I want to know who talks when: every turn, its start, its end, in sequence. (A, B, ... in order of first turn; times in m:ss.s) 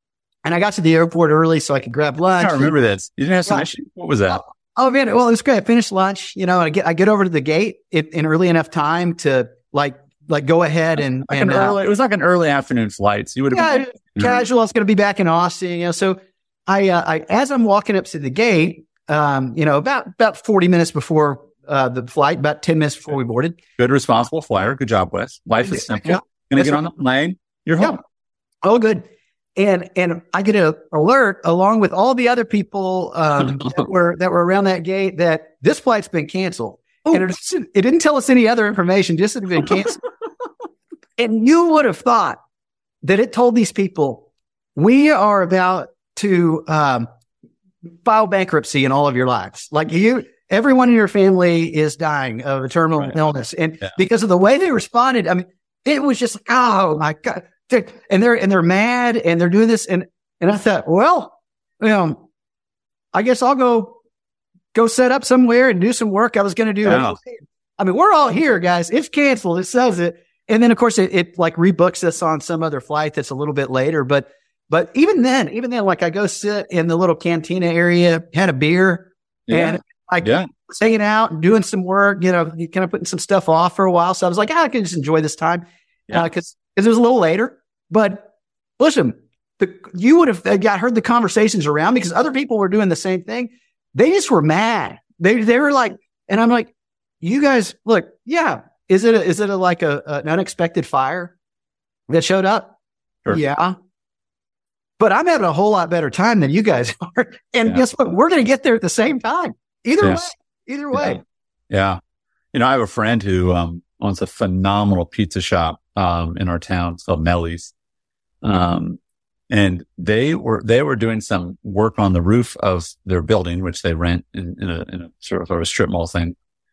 0:00.4-0:02.7 A
0:02.4-0:04.4 B
0:04.3-0:11.8 A
0:11.3-0:14.3 B
0:13.5-0:23.6 A
0:23.8-0:28.0 B
0:25.6-0:26.8 A
0:28.6-0:29.0 A
0:29.6-0:40.0 A
0:41.2-0:42.4 A
0:43.0-0:47.1 A
0:48.0-1:02.2 A
1:03.1-1:04.0 A
1:04.7-1:28.3 A
1:06.8-1:07.2 B
1:19.5-1:20.5 B
1:28.8-1:36.7 A
1:37.2-1:41.3 A
1:42.1-1:42.7 A
1:43.3-1:43.8 A
1:45.0-1:51.2 A
1:50.9-1:52.0 B
1:52.5-1:57.7 B
1:58.4-1:59.0 B
1:59.5-2:06.4 B